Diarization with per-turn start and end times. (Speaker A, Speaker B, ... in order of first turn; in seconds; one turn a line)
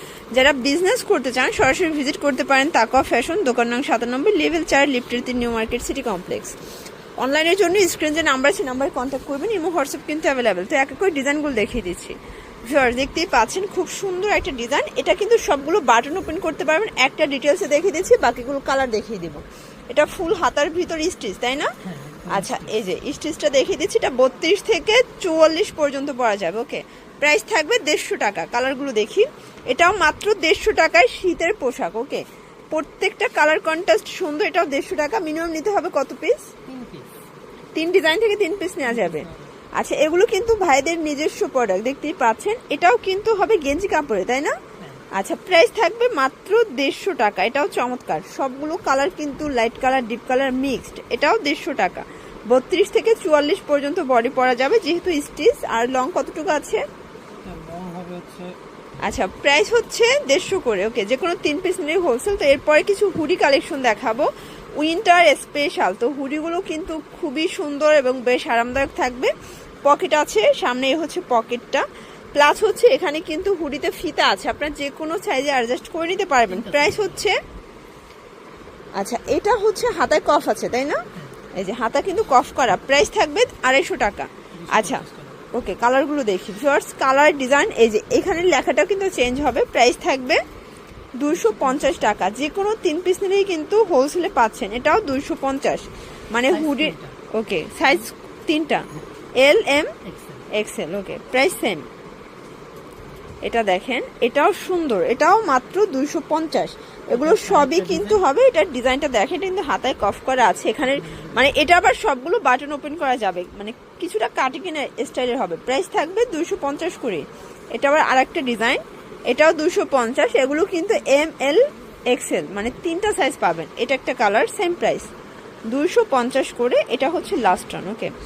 Speaker A: 0.3-6.6
Speaker A: 7.2-12.2
Speaker A: 12.7-21.7
Speaker B: 21.8-22.7
Speaker A: 22.3-36.5
Speaker B: 36.7-37.1
Speaker A: 37.7-44.5
Speaker B: 38.9-39.5
Speaker B: 44.8-45.0
Speaker A: 45.1-56.8
Speaker B: 57.4-58.6
Speaker A: 59.0-69.3
Speaker A: 69.8-77.4
Speaker B: 76.5-77.2
Speaker A: 79.0-81.0
Speaker A: 81.5-90.4
Speaker B: 84.5-85.4
Speaker A: 91.2-99.9
Speaker B: 91.3-92.1
Speaker B: 96.5-97.2
Speaker B: 100.0-100.5
Speaker A: 100.5-101.8
Speaker A: 103.4-125.1
Speaker B: 107.1-108.2
Speaker B: 111.0-111.4
Speaker A: 125.7-128.1